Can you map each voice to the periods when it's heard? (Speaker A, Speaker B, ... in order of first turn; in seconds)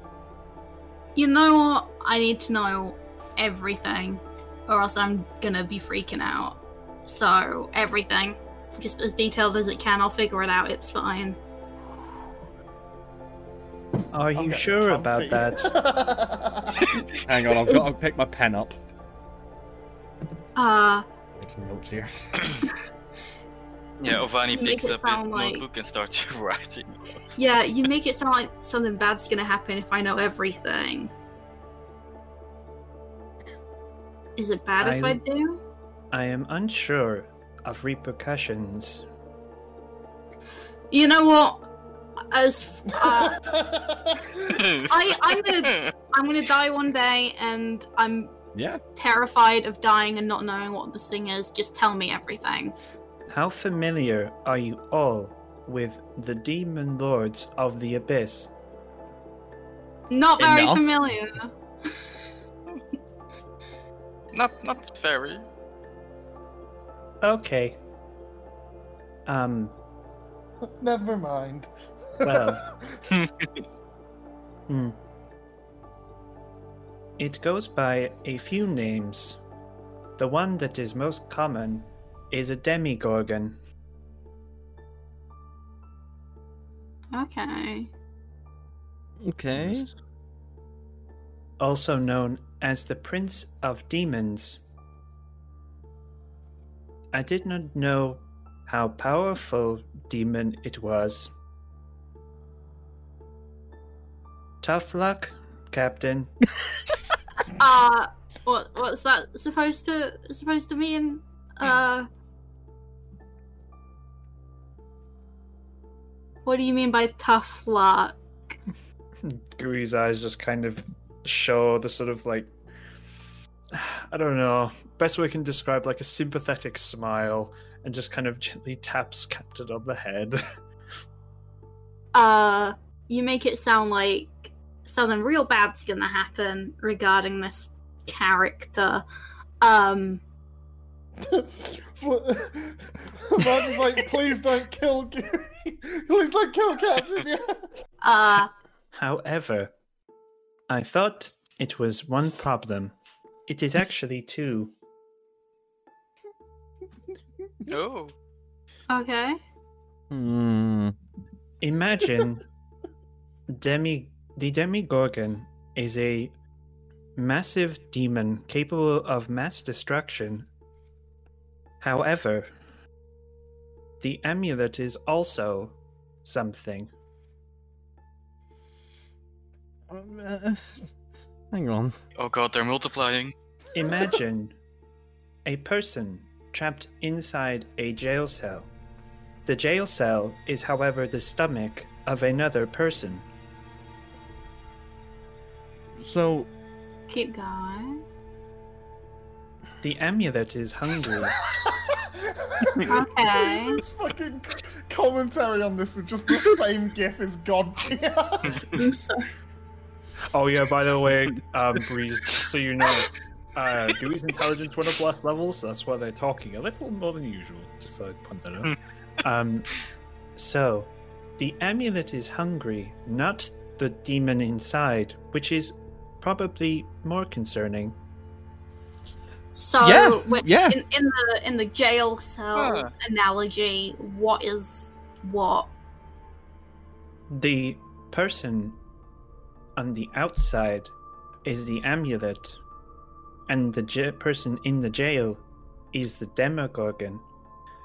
Speaker A: 1.1-11.4, 17.7-17.9, 20.6-21.1, 24.5-25.6, 27.4-31.1, 34.4-35.6, 40.9-41.7, 42.3-43.5, 44.8-48.3, 49.0-52.8, 60.1-61.5, 87.1-87.9, 107.5-112.1, 116.5-118.5, 132.1-139.1, 139.6-140.2, 148.0-148.5, 158.9-159.4, 197.1-198.0, 202.9-203.8, 208.7-209.3, 229.6-235.7
Speaker B: 14.1-15.7, 34.8-35.2, 36.1-39.0, 53.3-58.5, 67.2-67.8, 69.3-69.8, 72.2-72.7, 74.7-75.0, 77.2-79.4, 80.2-83.6, 89.5-89.9, 91.6-94.6, 97.1-101.3, 104.6-106.3, 119.2-122.5, 123.7-130.4, 148.9-149.7, 150.7-152.9, 153.5-154.7, 161.6-162.4, 163.5-166.3, 167.2-170.5, 171.8-172.5, 174.0-176.9, 183.7-184.6, 185.5-188.7, 189.5-193.3, 199.8-201.4, 210.3-219.8, 220.4-228.0, 237.3-238.8, 239.8-240.9, 241.4-242.6, 243.5-247.2
Speaker C: 14.3-16.9, 43.1-44.6, 70.7-71.7, 72.2-73.0, 141.2-147.6, 201.7-208.6
Speaker D: 17.2-18.8, 21.3-22.1, 48.5-48.8, 60.4-60.9, 89.2-89.9, 160.1-160.9, 179.9-180.9, 181.5-182.0, 196.0-196.5, 229.8-230.8
Speaker E: 24.0-26.9, 44.5-44.9, 45.6-45.9, 64.3-65.5, 73.1-73.7, 157.7-158.1, 182.2-183.3, 232.6-232.9